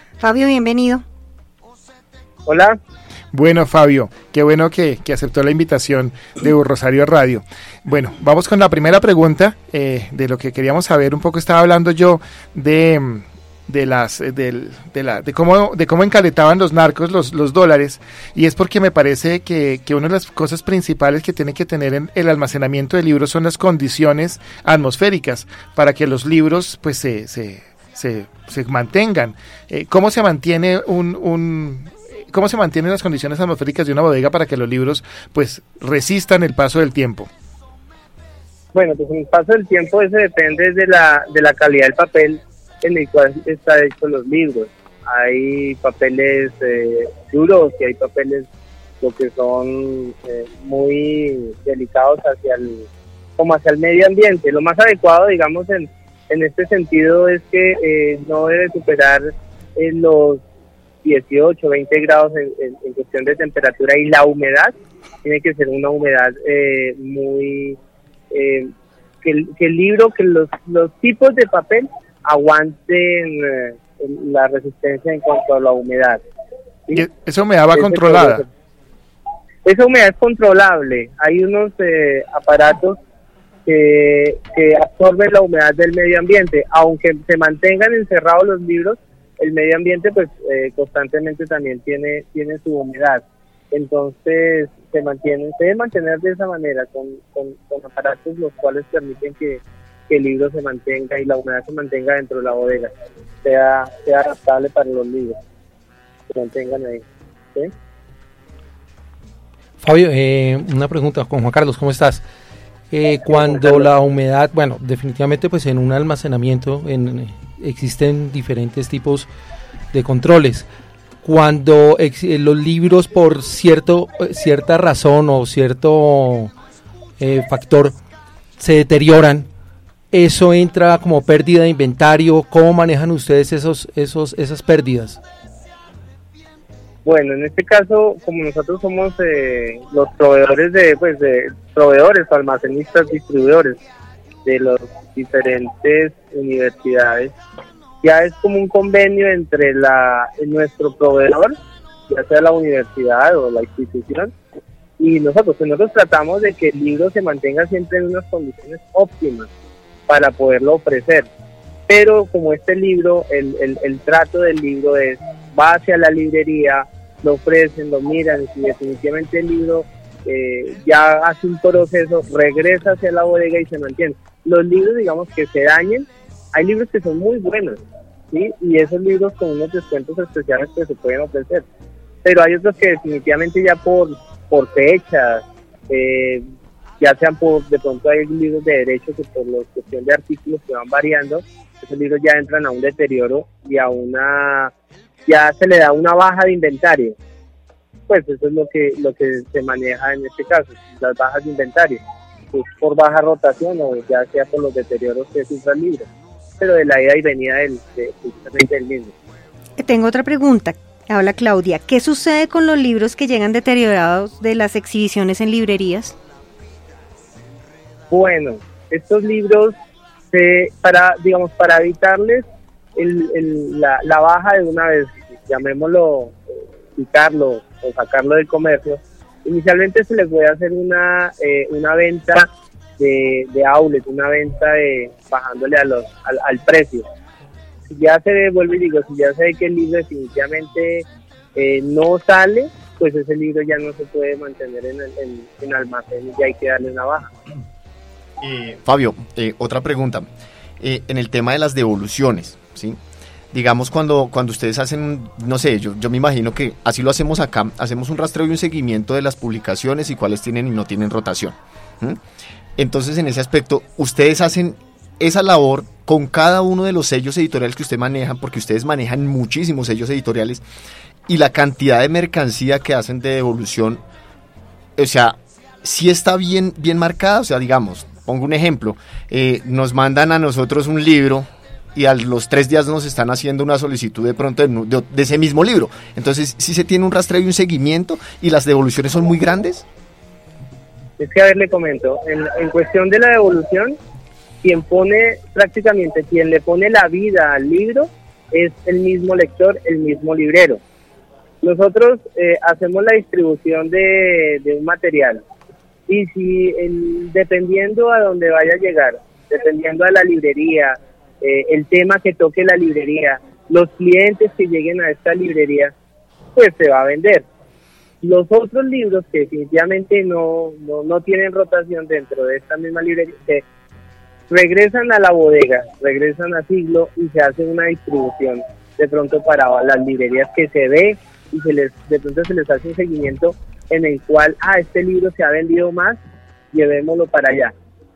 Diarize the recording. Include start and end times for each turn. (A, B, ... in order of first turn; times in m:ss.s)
0:00.2-0:01.0 A
0:02.4-0:02.8 B
0:03.3-0:37.3 C
0:38.7-0:48.4 B
0:49.0-0:52.9 B
0:53.4-1:00.4 B
1:01.0-1:07.8 B
1:08.3-1:08.7 B
1:09.2-1:16.2 B
1:16.9-1:18.4 C
1:17.7-1:18.4 B
1:19.6-1:23.0 B
1:23.6-1:42.9 B
1:43.4-1:45.4 B
1:46.3-1:47.0 B
1:49.8-1:52.2 D
1:52.9-1:59.3 D
1:53.3-1:53.9 B
1:59.9-2:00.6 D
2:01.2-2:06.5 D
2:07.2-2:08.0 D
2:08.6-2:09.5 D
2:10.1-2:15.2 D
2:17.0-2:23.8 B
2:24.4-2:27.3 B
2:28.0-2:31.5 B
2:32.1-2:34.3 B
2:35.0-2:39.5 B
2:40.1-2:41.3 B
2:41.9-2:57.8 B
2:58.3-3:01.6 B
3:02.2-3:06.4 B
3:07.0-3:14.7 B
3:15.3-3:17.1 B
3:18.1-3:22.0 B
3:22.5-3:26.0 B
3:26.6-3:29.1 B
3:29.8-3:36.2 A
3:38.1-3:39.7 B
3:40.3-3:42.4 B
3:43.0-3:46.4 B
3:46.9-3:57.0 B
3:57.9-4:07.3 B
4:08.4-4:10.3 E
4:10.8-4:13.0 E
4:13.5-4:22.2 E
4:22.8-4:30.6 E
4:31.3-4:34.0 E
4:35.0-4:49.8 E
4:51.2-4:54.0 B
4:54.6-5:00.8 B
5:01.6-5:05.4 B
5:06.1-5:15.9 B
5:16.5-5:17.4 B
5:18.2-5:23.6 B
5:24.5-5:36.2 B
5:36.7-5:37.7 B